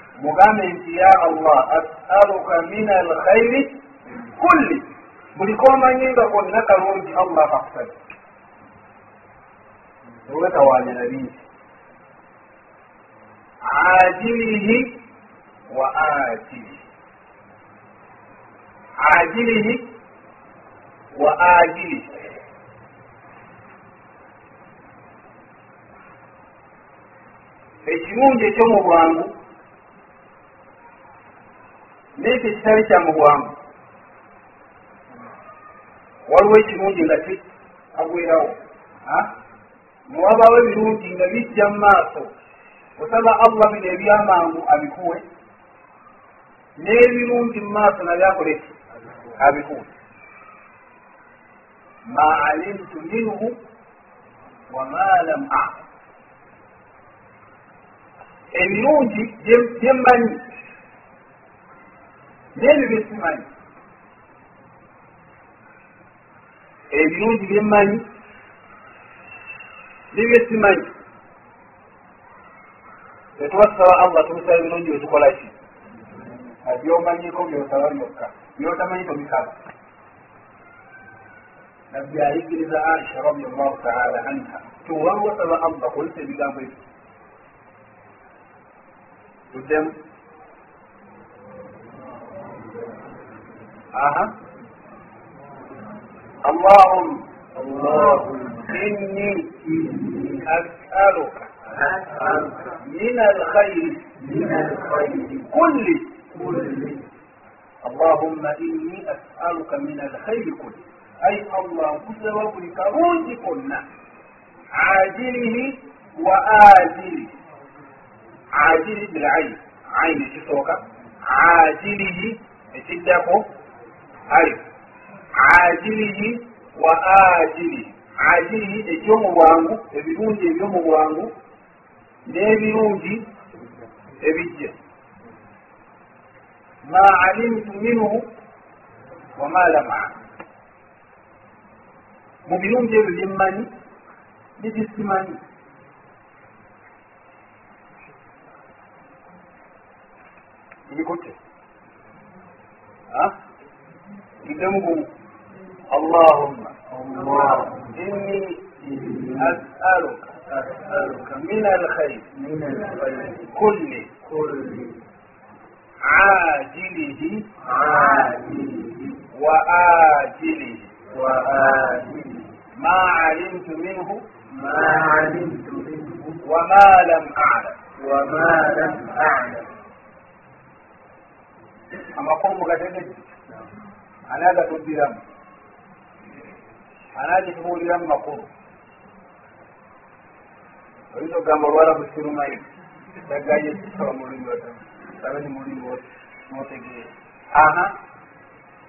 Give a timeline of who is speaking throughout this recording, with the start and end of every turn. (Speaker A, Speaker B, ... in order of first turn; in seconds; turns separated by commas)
Speaker A: 0.2-3.8, Speaker A: 4.4-8.0, Speaker A: 10.3-11.4, Speaker A: 13.6-15.0, Speaker A: 15.7-16.8, Speaker A: 19.0-19.9, Speaker A: 21.1-22.1, Speaker A: 27.8-29.4, Speaker A: 32.2-33.5, Speaker A: 36.3-37.4, Speaker A: 38.0-39.3, Speaker A: 40.1-42.3, Speaker A: 43.0-45.2, Speaker A: 46.8-48.8, Speaker A: 49.4-49.9, Speaker A: 52.1-53.6, Speaker A: 54.7-55.8, Speaker A: 58.5-60.4, Speaker A: 62.5-63.5, Speaker A: 66.9-68.0, Speaker A: 70.1-70.9, Speaker A: 73.4-75.5, Speaker A: 76.6-79.6, Speaker A: 81.9-86.8, Speaker A: 89.5-90.0, Speaker A: 93.9-94.3, Speaker A: 96.4-106.8, Speaker B: 102.0-102.5, Speaker A: 107.8-113.9, Speaker A: 114.7-117.3, Speaker A: 118.5-123.5, Speaker A: 124.3-124.6, Speaker A: 125.4-131.3, Speaker A: 132.3-133.3, Speaker A: 134.2-134.7, Speaker A: 136.8-138.3, Speaker A: 139.4-140.2, Speaker A: 142.5-143.7, Speaker A: 144.6-145.4, Speaker A: 150.9-151.3, Speaker A: 154.4-155.1, Speaker A: 155.9-156.8, Speaker B: 157.0-157.8, Speaker A: 157.6-162.4, Speaker B: 162.4-163.2, Speaker A: 163.4-164.2, Speaker B: 164.3-165.0, Speaker A: 166.0-168.7, Speaker A: 169.3-172.1, Speaker A: 172.8-175.6, Speaker B: 175.6-176.3, Speaker A: 176.4-179.7, Speaker A: 182.1-183.3, Speaker A: 184.3-185.2, Speaker A: 187.1-188.5, Speaker A: 191.1-192.7, Speaker A: 193.3-197.9